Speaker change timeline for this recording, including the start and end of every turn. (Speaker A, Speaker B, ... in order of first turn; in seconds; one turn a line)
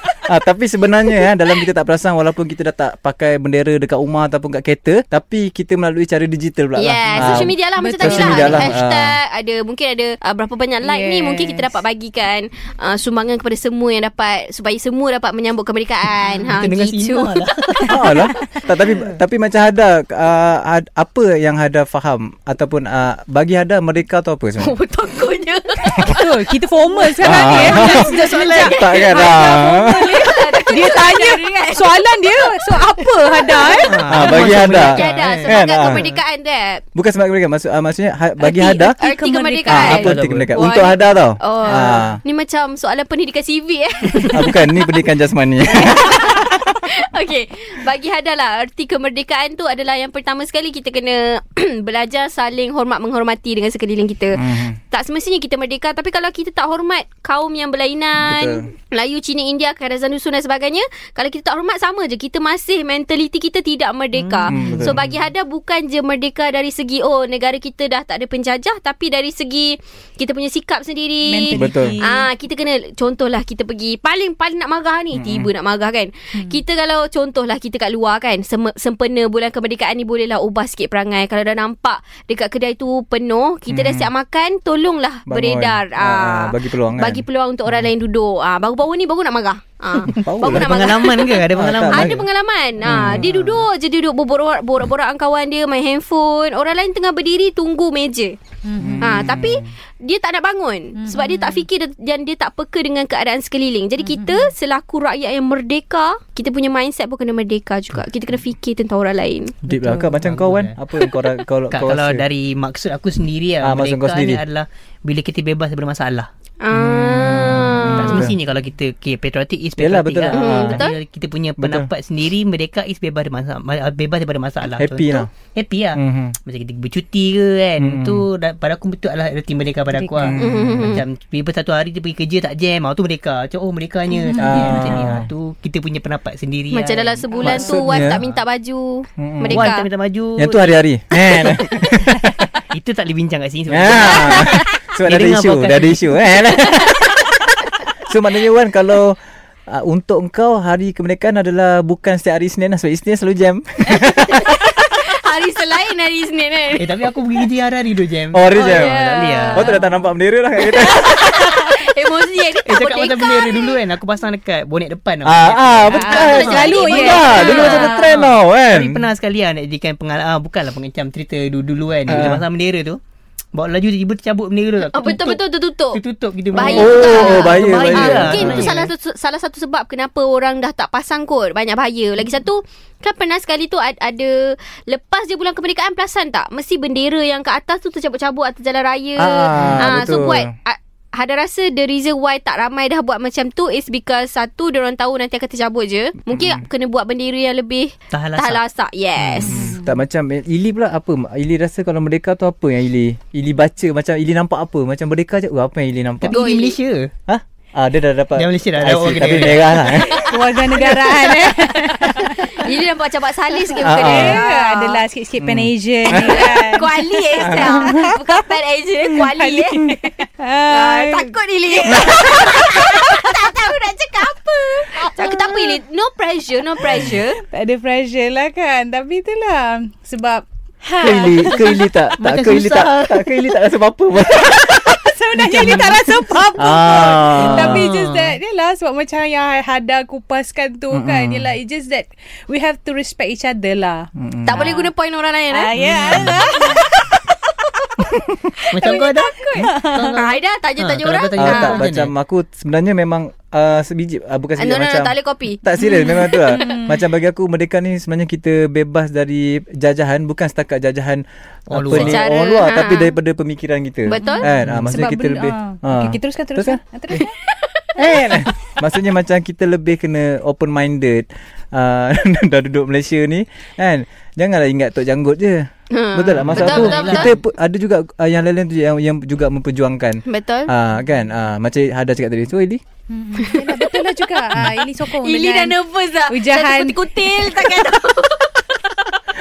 Speaker A: 0.3-9.2
Speaker B: 6.8-18.6
Speaker C: 7.2-8.8
Speaker C: 10.8-11.8
Speaker D: 16.4-18.0
Speaker A: 17.9-24.8
Speaker B: 24.6-26.4
Speaker C: 26.0-34.0
Speaker B: 27.0-31.9
Speaker A: 27.2-30.2
Speaker B: 33.4-36.8
Speaker D: 33.6-36.1
Speaker A: 34.1-36.1
Speaker A: 37.0-39.0
Speaker C: 38.4-40.1
Speaker B: 39.0-44.7
Speaker A: 39.7-42.2
Speaker D: 39.9-40.5
Speaker A: 44.3-46.3
Speaker B: 45.7-98.4
Speaker A: 54.4-54.8
Speaker A: 58.2-58.7
Speaker D: 64.1-65.1
Speaker A: 64.5-65.0
Speaker C: 71.2-72.3
Speaker A: 71.5-72.0
Speaker A: 75.1-75.5
Speaker A: 83.7-84.1
Speaker A: 85.3-87.2
Speaker D: 90.0-92.3
Speaker A: 90.1-90.8
Speaker A: 91.5-92.2
Speaker A: 92.8-93.3
Speaker D: 93.0-93.5
Speaker C: 98.6-99.2
Speaker A: 98.8-99.8
Speaker B: 99.0-109.6
Speaker C: 101.0-101.6
Speaker C: 104.0-104.5
Speaker A: 109.6-112.2
Speaker C: 109.7-110.2
Speaker D: 110.2-110.8
Speaker D: 111.7-116.3
Speaker A: 113.6-114.4
Speaker B: 116.6-118.3
Speaker A: 116.7-118.4
Speaker D: 117.9-138.4
Speaker A: 119.8-120.8
Speaker B: 120.3-121.0
Speaker A: 121.6-121.9
Speaker A: 124.7-125.3
Speaker A: 126.0-126.4
Speaker A: 127.8-128.2
Speaker C: 129.9-130.4
Speaker A: 130.2-131.0
Speaker B: 130.4-131.0
Speaker C: 134.2-135.0
Speaker A: 134.4-135.3
Speaker B: 136.7-139.9
Speaker C: 137.3-137.8
Speaker A: 137.5-138.2
Speaker A: 139.2-139.7
Speaker D: 139.5-140.8
Speaker A: 140.4-142.5
Speaker D: 141.4-141.6
Speaker D: 142.7-146.4
Speaker A: 143.7-147.2
Speaker B: 144.1-144.6
Speaker B: 146.6-147.4
Speaker A: 148.1-154.6
Speaker B: 153.9-157.1
Speaker D: 156.8-159.8
Speaker A: 158.3-159.0
Speaker B: 158.6-159.8
Speaker A: 159.5-161.1
Speaker B: 160.6-163.8
Speaker D: 162.7-173.0
Speaker A: 165.2-169.1
Speaker B: 165.9-168.0
Speaker C: 166.0-168.1
Speaker A: 172.1-172.4
Speaker D: 173.6-175.4
Speaker B: 174.9-176.0
Speaker D: 175.9-178.9
Speaker B: 176.5-199.8
Speaker A: 176.6-178.7
Speaker A: 189.2-190.5
Speaker A: 196.3-196.6
Speaker D: 198.1-198.6
Speaker A: 199.2-206.4
Speaker C: 199.5-200.0
Speaker D: 206.2-207.1
Speaker B: 206.3-206.8
Speaker A: 207.3-210.2
Speaker D: 208.4-209.9
Speaker B: 209.9-215.0
Speaker C: 210.2-212.5
Speaker A: 213.8-214.4
Speaker C: 214.0-218.4
Speaker A: 215.4-216.5
Speaker B: 216.1-227.4
Speaker A: 217.4-218.1
Speaker C: 219.2-223.1
Speaker C: 225.0-225.7
Speaker A: 226.9-227.2
Speaker C: 227.3-231.8
Speaker A: 231.0-235.1
Speaker D: 231.5-233.6
Speaker C: 234.9-244.9
Speaker D: 235.3-238.4
Speaker A: 236.6-237.9
Speaker A: 240.9-241.5
Speaker A: 244.2-244.6
Speaker B: 244.5-247.3
Speaker C: 245.5-247.1
Speaker D: 245.8-246.1
Speaker A: 246.0-246.5
Speaker B: 248.6-251.8
Speaker D: 248.7-252.1
Speaker C: 248.8-250.1
Speaker A: 251.4-267.2
Speaker B: 254.6-256.8
Speaker C: 255.8-257.1
Speaker D: 261.7-262.2
Speaker B: 262.0-263.1
Speaker B: 264.1-264.5
Speaker C: 264.2-267.4
Speaker D: 264.6-264.9
Speaker B: 267.5-268.0
Speaker A: 268.0-282.8
Speaker B: 275.9-277.4
Speaker D: 276.4-277.4
Speaker B: 280.2-280.7
Speaker C: 283.1-285.8
Speaker B: 283.4-289.1
Speaker C: 286.3-287.6